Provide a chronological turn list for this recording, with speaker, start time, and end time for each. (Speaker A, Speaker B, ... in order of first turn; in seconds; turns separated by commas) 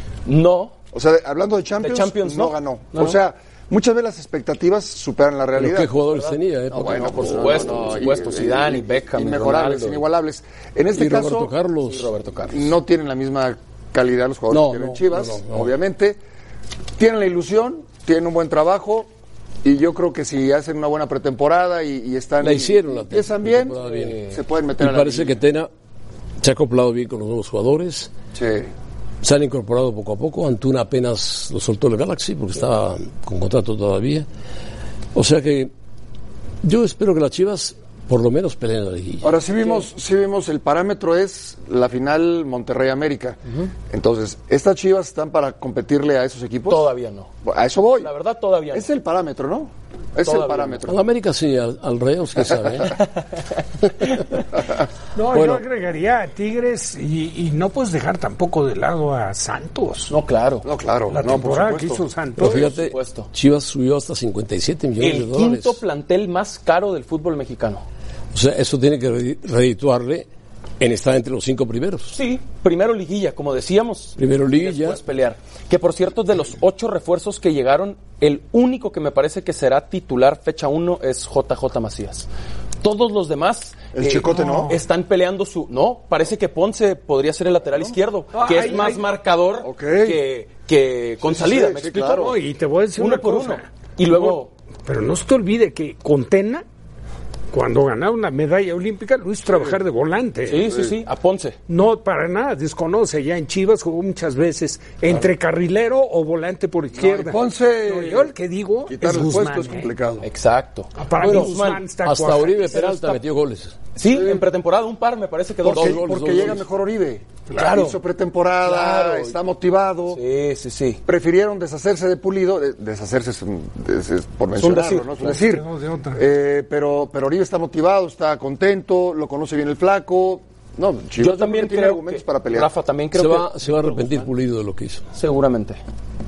Speaker A: 0.2-0.7, Speaker B: 0.9-5.9, Speaker A: 1.8-3.2, Speaker C: 5.5-8.0, Speaker A: 6.1-10.0, Speaker B: 6.7-11.5, Speaker C: 10.9-12.1, Speaker A: 11.8-12.7, Speaker B: 12.5-16.2, Speaker C: 14.5-15.7, Speaker B: 17.0-19.1, Speaker B: 19.6-25.4, Speaker C: 22.4-24.2, Speaker A: 23.8-24.4, Speaker C: 24.8-25.7, Speaker C: 26.4-28.1, Speaker B: 28.3-28.7, Speaker C: 29.2-34.3, Speaker C: 35.1-35.7, Speaker C: 36.6-39.3, Speaker B: 39.2-48.1, Speaker A: 46.7-47.3, Speaker A: 48.0-48.9, Speaker B: 48.7-51.0, Speaker A: 50.2-50.8, Speaker C: 50.9-53.0, Speaker D: 55.1-60.1, Speaker C: 55.3-55.6, Speaker A: 60.1-60.6, Speaker B: 60.6-61.9, Speaker D: 61.1-62.6, Speaker A: 61.5-63.3, Speaker C: 62.4-65.8, Speaker A: 65.0-67.8, Speaker C: 68.3-70.3, Speaker C: 70.8-72.2, Speaker A: 72.1-82.2, Speaker C: 74.2-75.0, Speaker A: 82.8-92.3, Speaker B: 83.9-84.8, Speaker D: 84.4-84.7, Speaker D: 88.3-89.1, Speaker B: 89.6-90.2, Speaker B: 91.2-92.4, Speaker D: 92.1-96.6, Speaker A: 93.0-94.5, Speaker D: 97.5-100.7, Speaker A: 100.4-101.6, Speaker D: 101.7-109.9, Speaker B: 107.0-108.3, Speaker B: 108.9-110.2, Speaker A: 110.2-111.9, Speaker D: 111.0-112.7, Speaker C: 111.2-113.8, Speaker A: 112.6-113.2, Speaker A: 114.0-116.5, Speaker B: 114.0-114.4, Speaker B: 115.6-120.2, Speaker C: 115.7-116.6, Speaker A: 117.5-118.0, Speaker A: 118.6-119.4, Speaker A: 120.1-121.0, Speaker B: 121.0-132.7, Speaker A: 124.5-125.3, Speaker D: 125.3-126.2, Speaker A: 131.2-134.3, Speaker C: 133.1-135.1, Speaker A: 135.1-135.8